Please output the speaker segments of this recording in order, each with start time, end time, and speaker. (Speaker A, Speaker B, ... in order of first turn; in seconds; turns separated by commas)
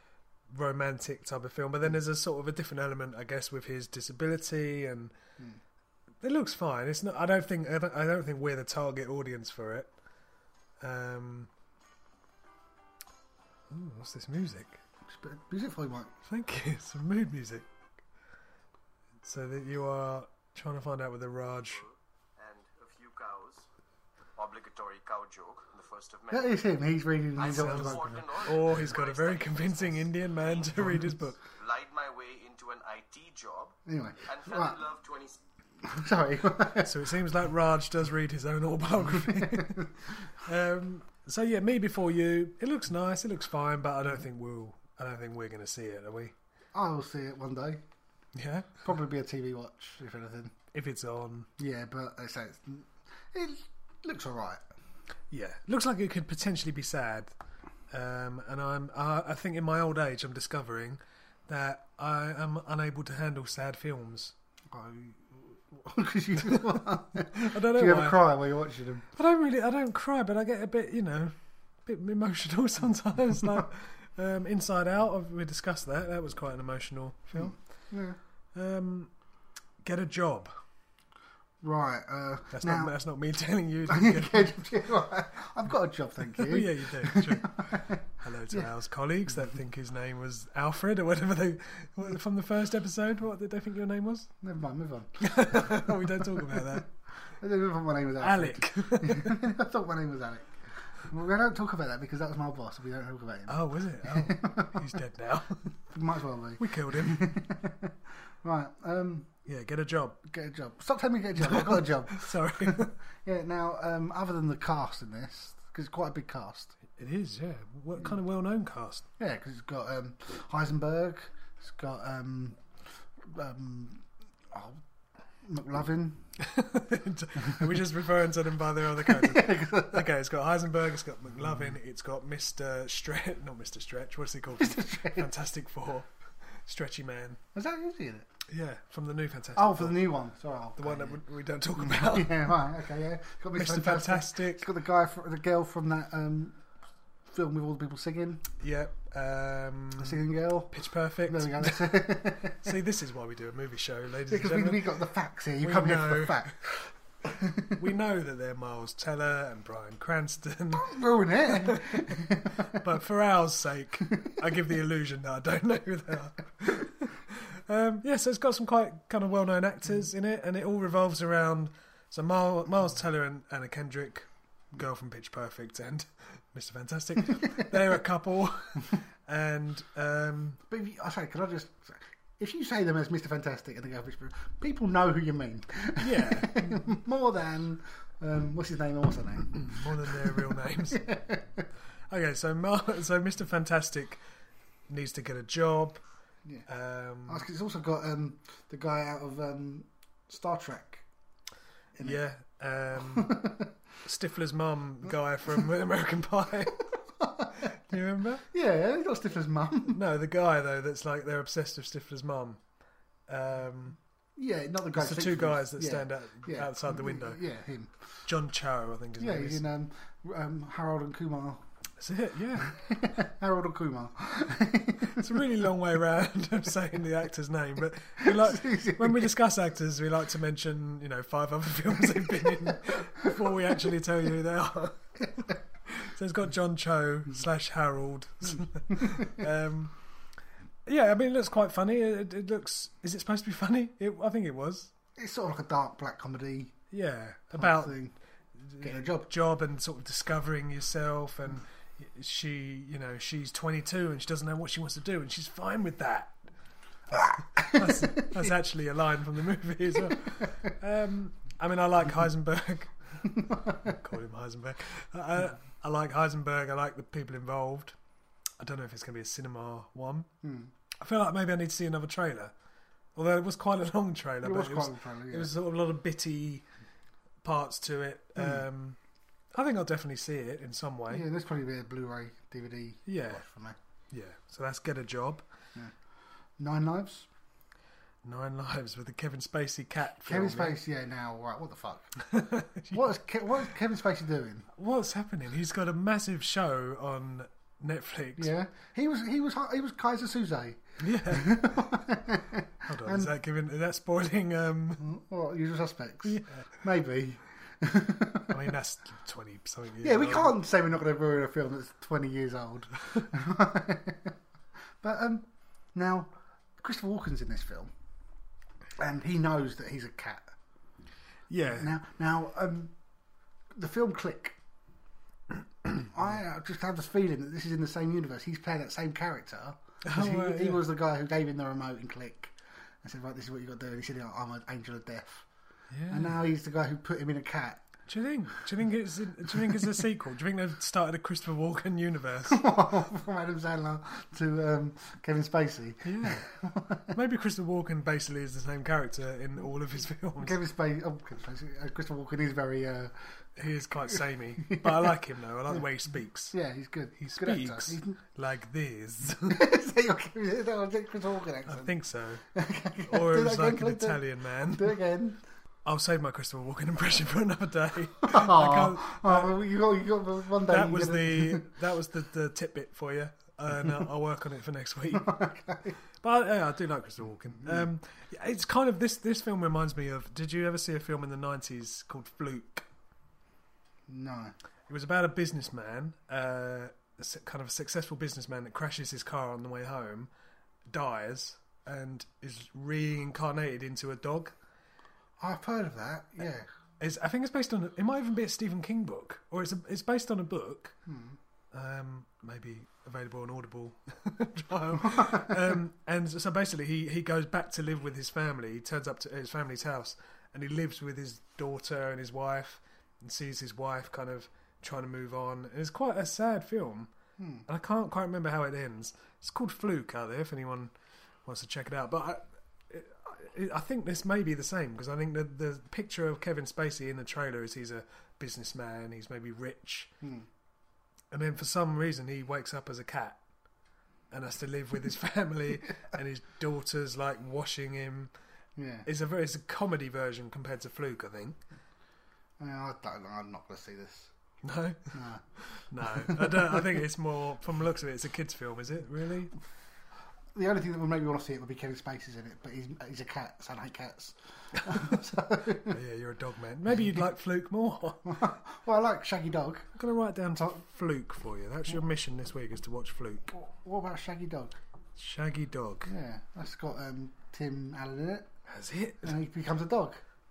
Speaker A: 0.5-5.1, Speaker A: 6.2-9.9, Speaker A: 10.8-11.5, Speaker A: 13.7-14.8, Speaker B: 15.1-16.1, Speaker A: 16.2-17.7, Speaker A: 19.2-21.8, Speaker C: 21.7-23.7, Speaker C: 24.4-26.6, Speaker B: 26.3-28.6, Speaker C: 27.4-30.9, Speaker A: 27.4-31.4, Speaker C: 31.4-35.4, Speaker B: 33.9-34.8, Speaker B: 35.8-36.9, Speaker A: 36.8-46.3, Speaker B: 39.1-39.9, Speaker B: 46.7-47.8, Speaker A: 48.3-48.8, Speaker B: 48.8-50.5, Speaker A: 50.7-51.5, Speaker B: 51.6-54.6, Speaker A: 55.3-57.3, Speaker A: 57.9-64.3, Speaker B: 64.7-69.1, Speaker A: 67.3-68.2, Speaker A: 69.1-71.3, Speaker A: 71.8-77.5, Speaker B: 77.3-78.2, Speaker A: 78.5-79.1, Speaker A: 79.8-80.5, Speaker B: 81.6-82.9, Speaker A: 82.5-84.6, Speaker B: 83.9-88.0, Speaker A: 86.3-94.3, Speaker B: 94.4-96.8, Speaker A: 95.2-96.9, Speaker B: 97.4-104.9, Speaker A: 98.2-99.4, Speaker A: 103.5-105.7, Speaker B: 105.9-109.3, Speaker A: 106.6-107.4, Speaker A: 109.5-110.2, Speaker B: 110.2-116.8, Speaker A: 111.4-112.9, Speaker A: 117.0-119.0, Speaker B: 119.2-122.6, Speaker B: 123.2-124.8, Speaker B: 125.4-126.2, Speaker A: 126.4-137.4, Speaker B: 129.0-130.1, Speaker B: 134.6-135.3, Speaker B: 137.5-138.3, Speaker A: 138.5-140.1, Speaker B: 139.6-141.2, Speaker A: 140.8-142.6, Speaker B: 141.8-146.6, Speaker A: 143.5-144.7, Speaker B: 147.3-148.4, Speaker A: 148.6-154.9, Speaker B: 150.0-150.7, Speaker B: 151.3-152.6, Speaker B: 154.3-157.8, Speaker A: 155.6-156.5, Speaker A: 157.7-180.6, Speaker B: 160.7-162.8, Speaker B: 180.7-190.3, Speaker A: 186.0-186.9, Speaker A: 189.6-191.1, Speaker B: 190.9-191.6, Speaker A: 192.1-194.2, Speaker A: 194.9-196.0, Speaker A: 196.7-197.4, Speaker B: 197.3-201.1, Speaker A: 202.0-203.4, Speaker B: 203.1-203.7, Speaker A: 204.0-206.9, Speaker B: 207.2-207.7, Speaker A: 207.6-208.4, Speaker B: 208.5-210.0, Speaker A: 209.9-212.6, Speaker A: 213.3-214.0, Speaker B: 214.3-217.9, Speaker A: 214.9-217.4, Speaker A: 218.2-219.6, Speaker B: 219.2-221.6, Speaker A: 222.0-222.8, Speaker B: 222.7-225.4, Speaker A: 225.1-235.1, Speaker B: 228.2-229.3, Speaker A: 235.8-239.9, Speaker B: 239.0-239.3, Speaker A: 240.8-244.9, Speaker B: 245.2-246.8, Speaker A: 246.9-247.9, Speaker B: 247.6-248.1, Speaker A: 248.6-256.4, Speaker B: 248.8-249.3, Speaker A: 257.1-262.9, Speaker B: 257.1-258.5, Speaker A: 263.6-267.9, Speaker A: 268.6-270.3, Speaker B: 270.4-270.7, Speaker A: 271.0-272.5, Speaker A: 273.1-276.6, Speaker B: 274.4-275.5, Speaker A: 277.4-279.0, Speaker A: 279.5-281.2, Speaker B: 281.1-283.8, Speaker A: 283.1-283.4, Speaker A: 284.1-285.4, Speaker B: 286.6-287.3, Speaker A: 288.2-290.8, Speaker B: 290.2-292.1, Speaker A: 292.2-293.0, Speaker B: 292.9-294.7, Speaker A: 294.8-298.5, Speaker B: 298.4-303.3, Speaker A: 301.0-301.8, Speaker A: 302.8-305.1, Speaker B: 305.0-308.5, Speaker A: 306.2-306.6, Speaker A: 308.5-310.6, Speaker B: 310.0-314.3, Speaker B: 315.0-317.9, Speaker B: 319.0-320.5, Speaker A: 321.5-321.9, Speaker B: 321.8-322.9, Speaker B: 323.7-324.6, Speaker B: 325.9-335.5, Speaker A: 330.0-330.8, Speaker A: 335.9-336.3, Speaker B: 336.1-337.9, Speaker A: 338.1-342.6, Speaker B: 342.5-347.1, Speaker A: 346.0-346.5, Speaker A: 347.1-350.6, Speaker B: 350.4-353.2, Speaker A: 353.6-356.6, Speaker B: 354.6-355.1, Speaker B: 356.5-358.2, Speaker A: 357.1-359.7, Speaker B: 359.5-361.9, Speaker A: 361.7-362.4, Speaker B: 362.5-365.4, Speaker A: 363.0-364.9, Speaker A: 365.8-369.6, Speaker B: 368.2-371.7, Speaker A: 370.6-375.3, Speaker B: 375.1-376.0, Speaker A: 376.2-382.8, Speaker B: 384.1-384.5, Speaker A: 384.9-390.3, Speaker A: 390.9-394.5, Speaker B: 395.4-396.7, Speaker A: 397.0-400.9, Speaker B: 401.1-401.4, Speaker A: 401.7-417.1, Speaker B: 417.4-417.6, Speaker A: 417.6-420.9, Speaker A: 421.4-430.1, Speaker A: 431.3-433.4, Speaker A: 434.3-438.3, Speaker B: 438.8-439.1, Speaker A: 439.0-441.6, Speaker B: 442.6-444.3, Speaker A: 444.6-449.5, Speaker B: 445.1-445.4, Speaker B: 446.1-446.8, Speaker B: 450.5-456.0, Speaker A: 455.9-458.5, Speaker B: 458.2-459.9, Speaker A: 459.9-463.5, Speaker B: 463.5-464.8, Speaker A: 465.1-466.1, Speaker B: 466.1-468.5, Speaker A: 468.7-469.4, Speaker B: 469.2-470.2